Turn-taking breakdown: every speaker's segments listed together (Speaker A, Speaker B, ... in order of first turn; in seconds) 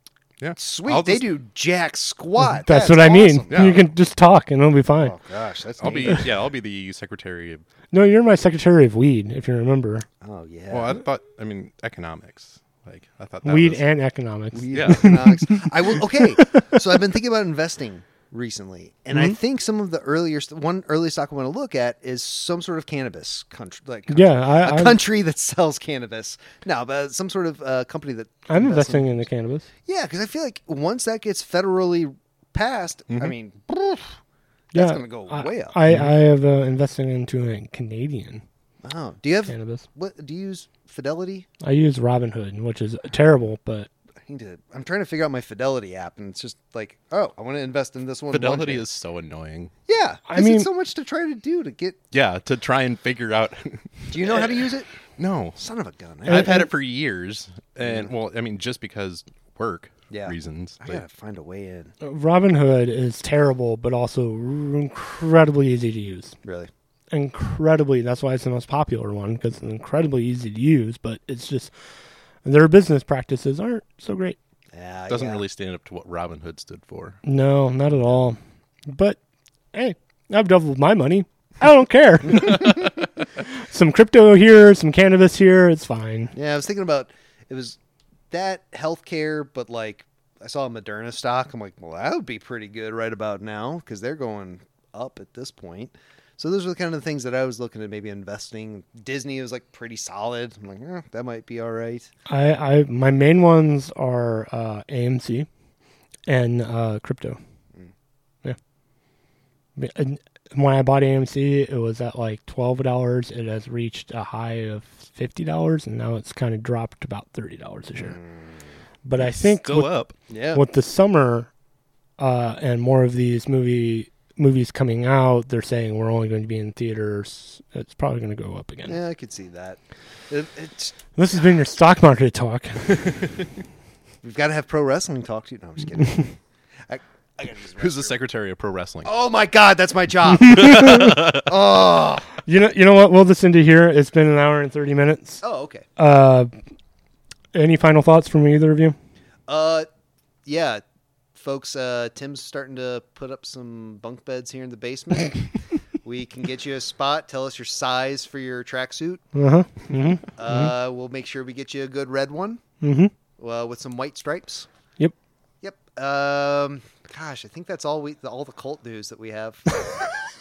Speaker A: 0.4-1.3, 3.5-3.8, 5.8-7.6, 10.7-13.8, 14.7-15.2, 35.9-36.1, 48.3-49.7, 52.1-54.6, 55.2-55.6, 56.2-61.0, 75.1-77.2, 119.2-120.1, 137.8-139.1, 140.5-141.4
Speaker B: 0.6-3.8, 5.0-6.2, 10.2-10.9, 14.5-29.2, 29.8-34.2, 34.7-35.7, 38.8-41.5, 44.2-48.9, 49.9-52.0, 54.1-54.9, 55.6-56.7, 57.8-58.1, 60.1-61.9, 66.4-66.7, 74.7-75.4, 86.3-87.8, 88.3-102.1, 118.0-118.5, 120.3-120.6, 128.9-130.9, 134.2-136.3, 136.9-138.2, 139.0-142.3, 145.4-145.8, 149.5-149.9, 150.4-150.8, 151.3-155.5, 156.0-159.2, 160.4-162.6, 163.4-164.7, 165.6-169.8
Speaker C: 2.6-5.1, 7.9-10.1, 13.4-15.7, 16.3-16.8, 24.1-25.0, 28.5-29.7, 34.7-38.4, 39.5-39.8, 41.6-43.9, 50.3-50.7, 56.3-56.6, 62.0-66.3, 67.1-71.7, 72.4-74.4, 77.2-79.2, 79.7-86.3, 102.3-105.5, 106.3-107.4, 109.8-118.2, 119.0-119.9, 120.5-121.5, 122.2-129.0, 131.2-133.1, 140.5-141.3, 142.4-145.4, 146.0-146.5, 147.5-148.9, 159.3-160.7, 162.8-163.1